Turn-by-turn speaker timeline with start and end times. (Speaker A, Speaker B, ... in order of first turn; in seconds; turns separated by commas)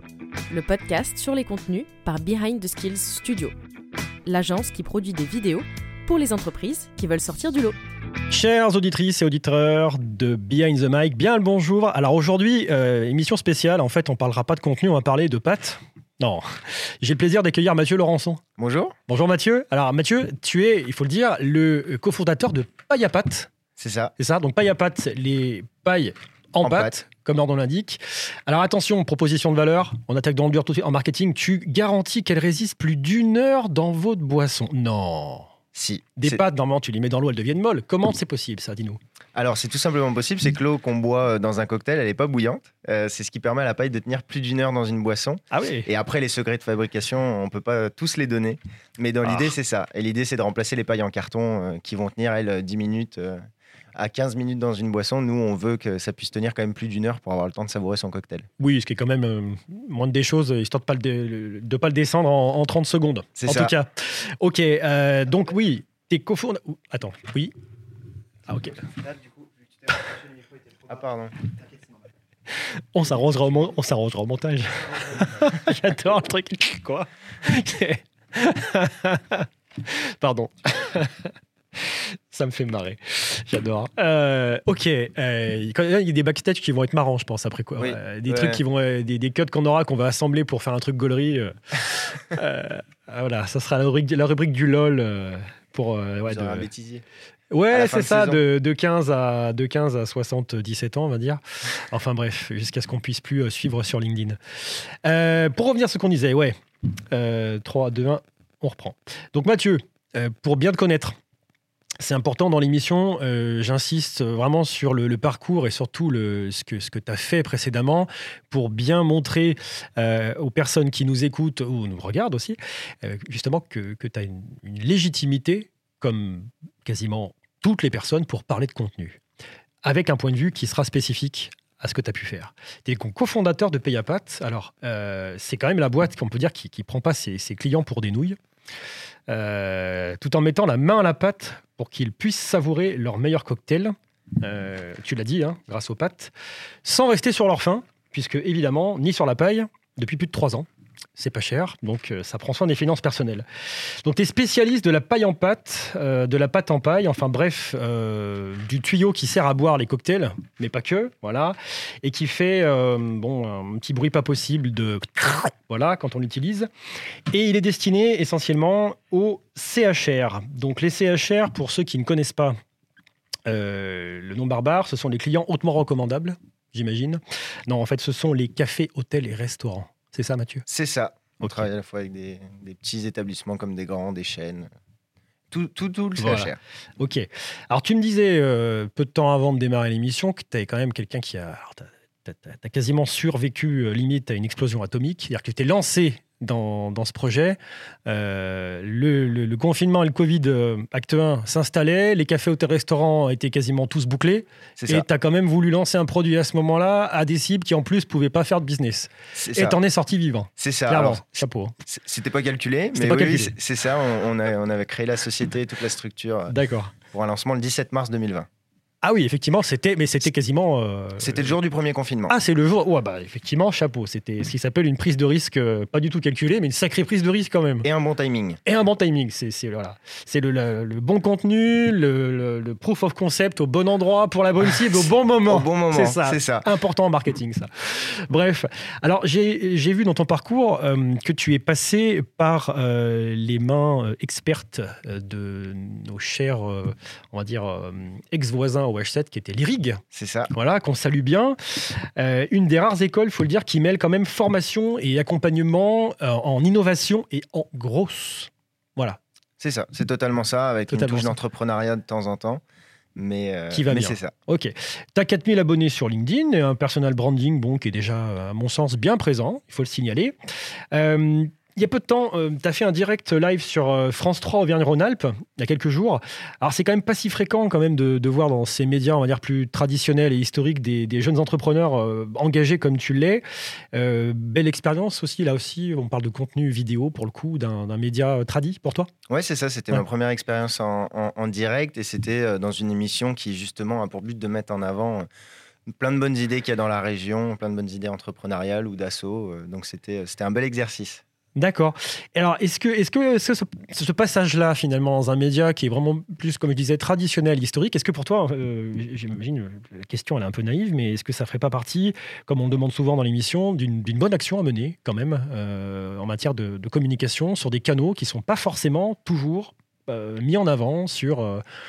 Speaker A: 0.5-3.5, Speaker A: 4.2-7.8, Speaker B: 8.3-18.4, Speaker C: 18.6-18.9, Speaker B: 19.1-23.5, Speaker C: 23.8-24.1, Speaker B: 24.2-35.5, Speaker C: 26.6-26.9, Speaker C: 35.7-36.4, Speaker B: 36.2-39.0, Speaker C: 39.3-53.4, Speaker B: 45.5-45.9, Speaker C: 53.9-58.5, Speaker B: 58.6-67.5, Speaker C: 63.4-63.7, Speaker B: 68.5-68.9, Speaker C: 70.8-71.4, Speaker B: 72.5-96.7, Speaker C: 87.8-88.6, Speaker C: 96.3-97.0, Speaker B: 97.5-106.5, Speaker C: 97.7-98.4, Speaker B: 107.1-111.2, Speaker B: 112.0-129.2, Speaker B: 129.8-138.4, Speaker B: 139.3-146.3, Speaker B: 146.8-166.7, Speaker B: 167.3-172.6, Speaker B: 173.4-180.6, Speaker C: 180.7-184.7, Speaker C: 185.5-186.6, Speaker B: 186.2-211.7, Speaker C: 204.8-205.0, Speaker C: 209.3-209.8, Speaker C: 210.6-211.2, Speaker C: 211.8-218.5, Speaker B: 212.9-213.5, Speaker B: 216.5-216.9, Speaker B: 219.0-221.5, Speaker C: 221.2-222.3, Speaker B: 222.3-227.9, Speaker C: 227.8-228.6, Speaker B: 228.6-250.0, Speaker C: 235.5-236.7, Speaker C: 250.1-250.5, Speaker B: 250.5-259.2, Speaker C: 259.6-262.6, Speaker B: 260.9-261.3, Speaker C: 263.1-264.3, Speaker B: 263.7-270.3, Speaker B: 270.9-289.1, Speaker C: 289.3-295.3, Speaker C: 295.9-301.2, Speaker B: 301.6-321.6